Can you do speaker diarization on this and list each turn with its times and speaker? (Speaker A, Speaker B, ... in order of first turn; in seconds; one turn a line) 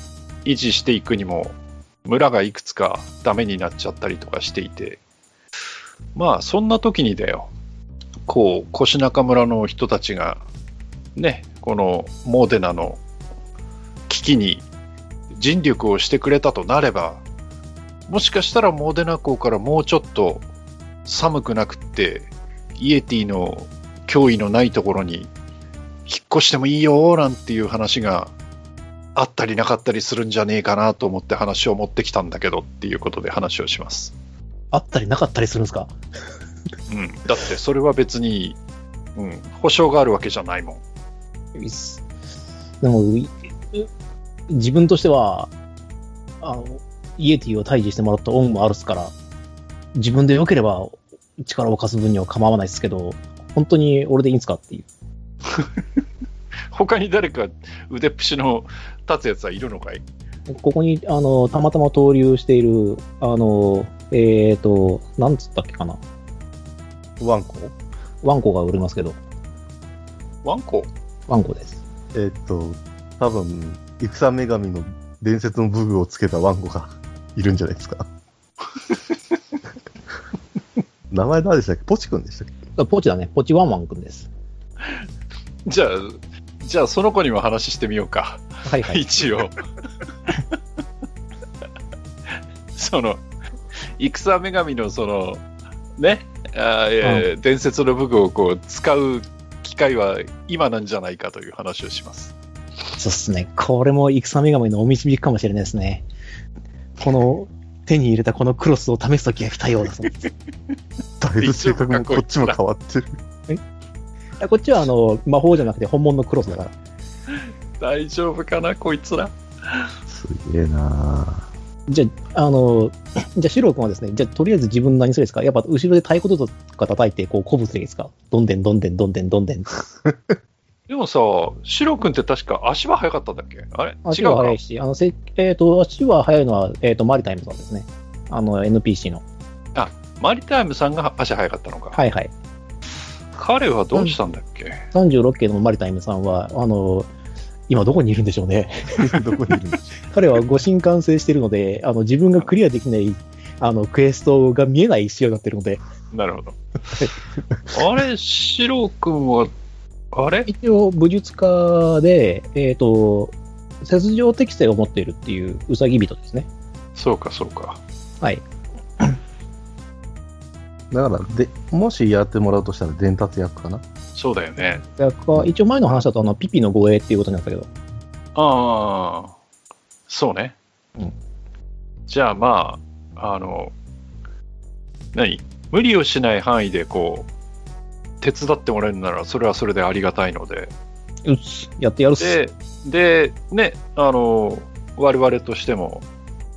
Speaker A: 0.5-5.0
Speaker A: 6.2-7.5
Speaker A: 8.3-10.4
Speaker A: 11.2-13.0
Speaker A: 14.1-14.7
Speaker A: 15.3-17.2
Speaker A: 18.1-20.4
Speaker A: 21.1-25.3
Speaker A: 26.1-28.3
Speaker A: 29.1-34.1
Speaker B: 34.7-35.9
Speaker A: 36.9-38.6
Speaker A: 39.2-40.8
Speaker B: 41.5-42.0
Speaker B: 42.8-43.9
Speaker B: 44.5-45.5
Speaker B: 46.4-49.1
Speaker B: 50.0-54.9
Speaker A: 56.7-60.0
Speaker B: 60.5-66.0
Speaker C: 67.2-67.7
Speaker B: 68.2-69.2
Speaker A: 70.4-70.9
Speaker B: 71.3-71.8
Speaker C: 72.1-78.1
Speaker C: 81.1-82.5
Speaker B: 82.8-84.3
Speaker A: 85.7-89.7
Speaker B: 88.7-89.0
Speaker A: 92.8-93.2
Speaker A: 94.0-95.4
Speaker A: 96.0-102.3
Speaker B: 97.0-97.3
Speaker B: 103.0-106.0
Speaker B: 107.0-110.3
Speaker C: 111.2-113.1
Speaker A: 111.4-112.6
Speaker B: 114.4-116.7
Speaker A: 117.8-119.9
Speaker C: 120.1-121.5
Speaker B: 121.9-129.8
Speaker A: 130.9-134.6
Speaker B: 134.1-139.2
Speaker A: 139.8-142.0
Speaker B: 141.9-142.3
Speaker A: 143.4-144.8
Speaker B: 144.9-147.1
Speaker B: 147.7-149.2
Speaker C: 148.9-149.9
Speaker B: 150.1-155.8
Speaker A: 156.1-156.6
Speaker A: 157.7-159.5
Speaker A: 160.1-160.5
Speaker B: 160.5-166.5
Speaker A: 167.0-167.8
Speaker C: 170.9-173.8
Speaker A: 174.2-174.8
Speaker B: 174.9-177.7
Speaker A: 178.3-179.3
Speaker A: 180.1-180.6
Speaker A: 182.1-183.7
Speaker A: 185.1-187.3
Speaker A: 188.2-190.7
Speaker B: 191.2-192.4
Speaker A: 192.2-196.1